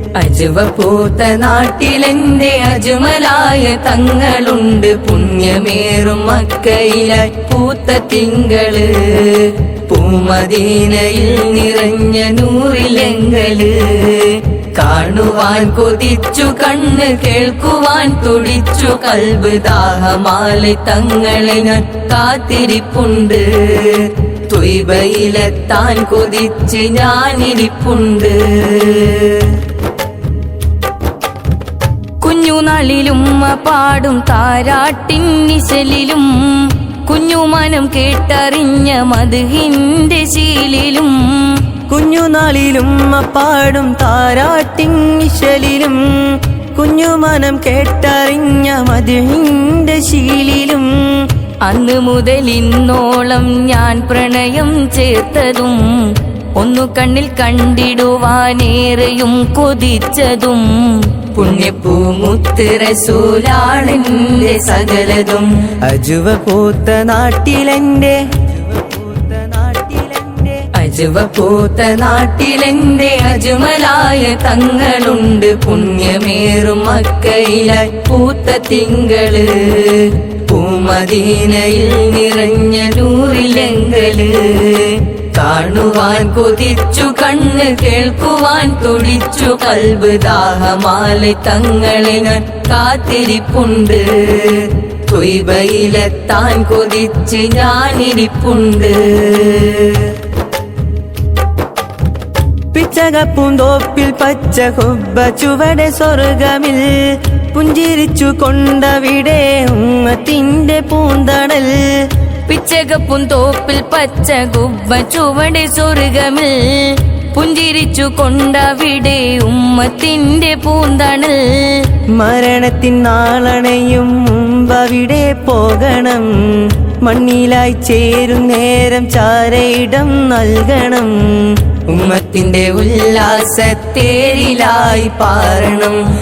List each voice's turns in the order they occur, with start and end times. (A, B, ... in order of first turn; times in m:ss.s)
0:00.1-0:29.6 A
0:32.2-0:41.7 A
0:41.9-0:51.3 B
0:51.6-1:05.7 A
1:05.8-1:10.6 B
1:10.7-1:40.2 A
1:42.7-1:52.1 B
1:52.5-2:01.9 A
2:02.2-2:11.6 B
2:11.9-2:16.0 A